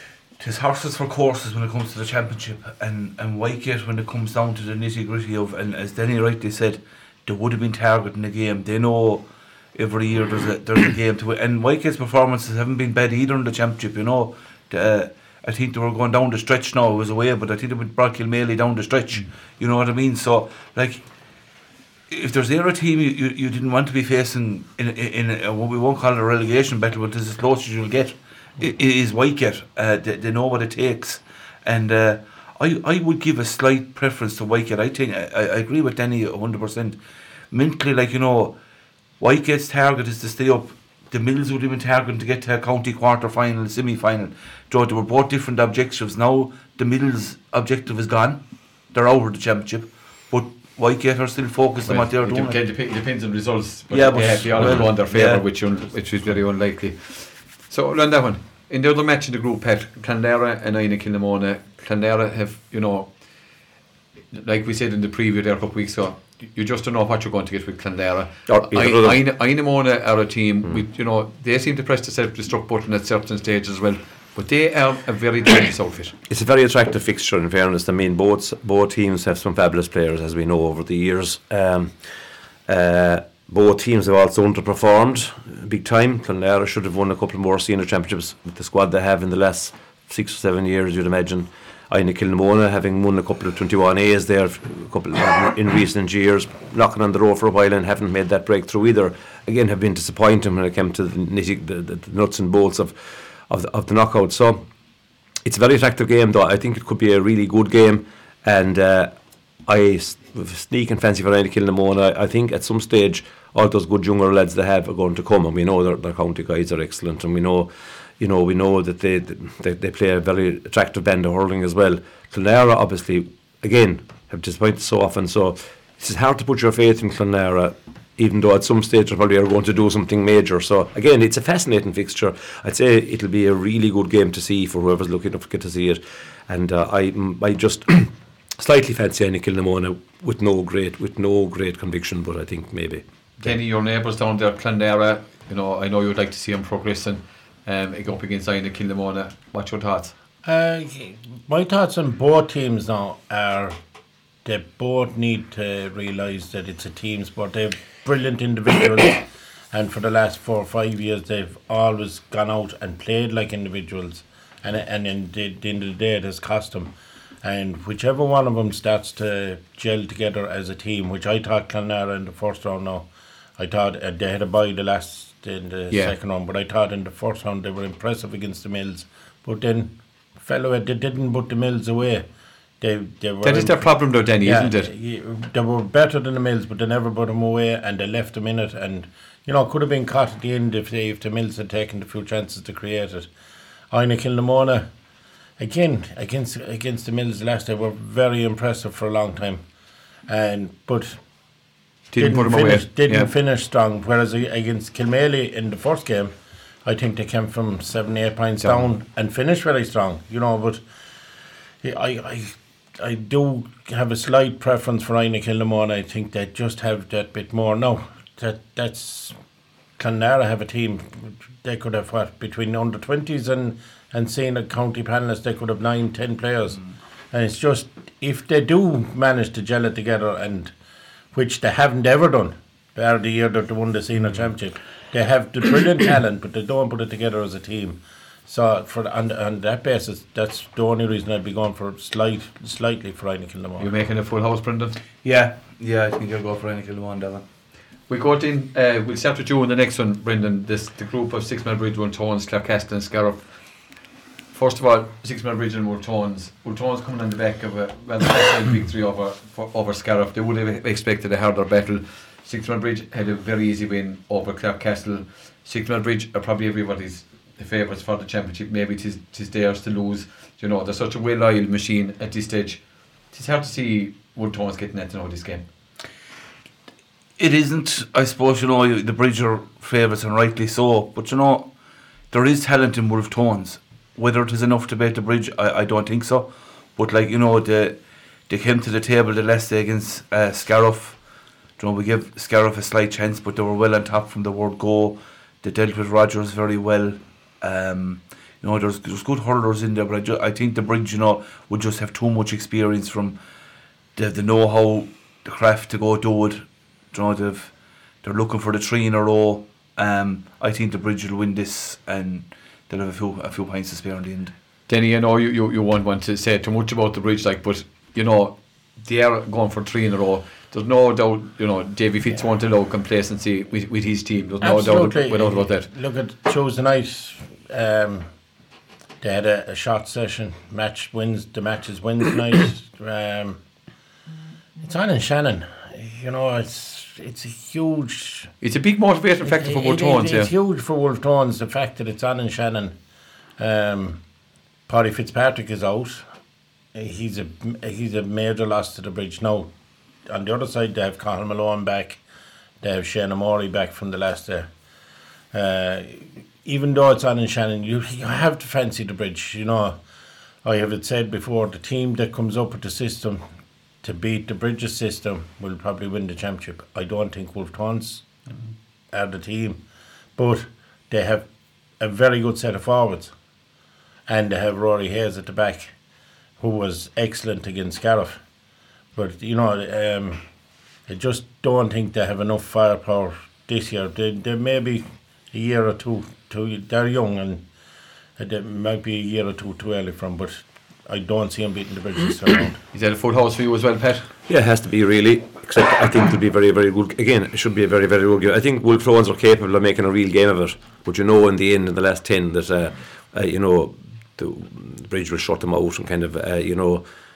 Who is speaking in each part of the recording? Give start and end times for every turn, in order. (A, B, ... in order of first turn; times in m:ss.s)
0:00.4-0:21.0 A
0:22.1-0:37.0 A
0:37.5-0:38.6 A
0:39.2-0:52.6 A
0:51.9-1:03.2 B
0:53.9-0:55.4 A
1:04.3-1:16.1 B
1:08.5-1:09.2 C
1:16.3-1:22.1 C
1:22.6-1:44.6 C
1:45.4-1:49.1 C
1:49.6-2:23.0 C
2:23.4-2:30.1 B
2:30.4-2:33.8 D
2:34.4-3:02.2 D
3:02.8-3:13.3 D
3:03.4-3:04.9 B
3:13.9-3:14.9 D
3:15.6-3:19.6 D
3:20.3-3:21.2 D
3:22.1-3:23.3 B
3:22.2-3:26.3 D
3:26.8-3:30.8 D
3:28.6-3:28.8 B
3:31.8-3:39.4 D
3:40.0-3:46.8 D
3:47.3-3:50.7 D
3:51.3-4:03.9 D
4:03.8-4:05.0 B
4:05.2-4:07.4 A
4:08.1-4:13.5 B
4:14.5-4:35.6 B
4:37.4-4:41.7 A
4:42.3-4:51.2 A
4:51.8-5:03.4 A
5:04.2-5:14.5 A
5:14.9-5:25.9 B
5:24.6-5:28.3 D
5:29.2-5:33.6 D
5:34.8-5:38.5 D
5:38.6-5:40.5 B
5:39.4-5:43.0 D
5:43.6-5:44.2 D
5:44.9-5:46.3 D
5:46.9-5:49.7 D
5:50.3-5:52.2 D
5:52.8-5:54.7 D
5:55.5-6:00.0 D
6:00.6-6:03.4 D
6:04.0-6:08.3 D
6:09.1-6:09.8 D
6:10.4-6:11.5 D
6:12.0-6:13.3 D
6:14.3-6:15.9 D
6:16.6-6:18.4 D
6:19.1-6:20.4 D
6:21.1-6:27.6 D
6:28.4-6:32.8 D
6:32.9-6:34.3 B
6:34.5-6:47.0 C